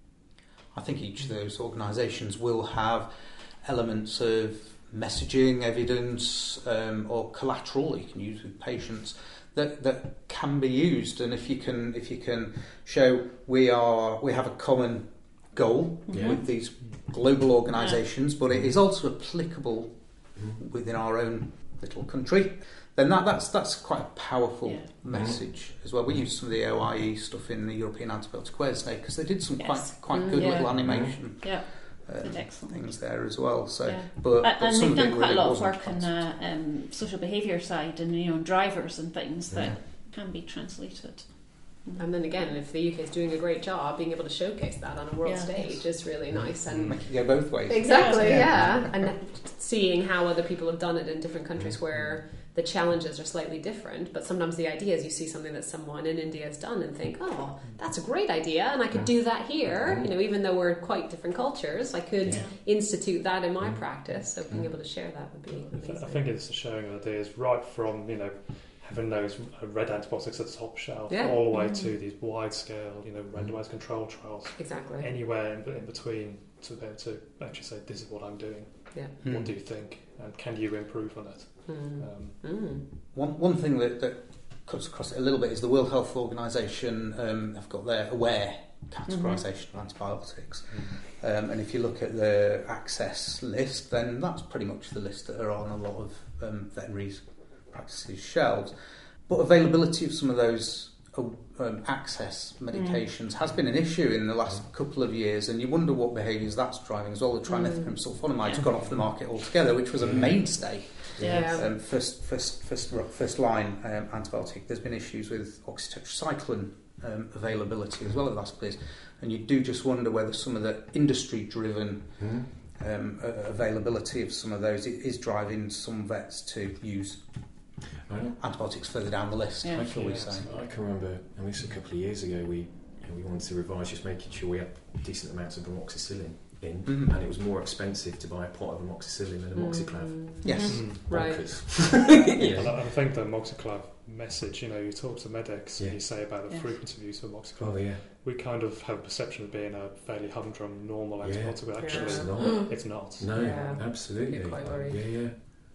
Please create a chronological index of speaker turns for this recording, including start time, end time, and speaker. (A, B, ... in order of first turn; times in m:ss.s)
0:00.7-0:36.3 A
0:16.1-0:17.0 B
0:16.1-0:16.5 C
0:17.8-0:18.0 B
0:18.5-0:18.7 C
0:20.4-0:20.6 C
0:24.6-0:24.9 B
0:25.1-0:25.5 C
0:29.6-0:42.1 B
0:30.1-0:30.7 D
0:30.7-0:31.2 C
0:39.5-0:39.8 C
0:42.0-1:06.3 D
0:45.2-0:45.8 B
0:46.6-0:47.5 E
0:46.8-0:49.1 A
0:47.9-0:48.7 B
0:51.9-0:52.2 E
0:57.6-0:57.9 E
0:58.9-1:00.1 C
1:02.2-1:02.6 C
1:02.2-1:02.5 B
1:03.6-1:03.9 C
1:04.5-1:04.7 C
1:05.5-1:22.4 E
1:11.1-1:11.4 D
1:11.5-1:11.9 B
1:13.3-1:13.6 C
1:14.6-1:15.1 D
1:19.2-1:19.6 A
1:21.6-1:22.9 D
1:22.9-2:07.8 A
1:29.1-1:29.4 B
1:30.7-1:31.0 E
1:42.7-1:43.1 B
1:47.5-1:48.0 D
1:48.7-1:49.1 E
1:50.0-1:50.3 E
1:50.0-1:50.4 C
1:51.2-1:51.4 C
1:51.2-1:51.7 D
1:51.2-1:51.6 B
2:02.2-2:02.5 C
2:08.0-2:08.4 C
2:08.4-2:10.5 A
2:09.6-2:09.9 B
2:09.8-2:22.9 C
2:09.8-2:11.0 E
2:16.8-2:17.2 A
2:19.5-2:22.0 D
2:20.4-2:21.0 A
2:20.5-2:20.8 B
2:20.7-2:21.1 E
2:22.6-2:34.1 E
2:25.8-2:26.2 C
2:26.4-2:26.8 B
2:27.6-2:28.0 C
2:31.2-2:35.4 C
2:31.8-2:35.1 D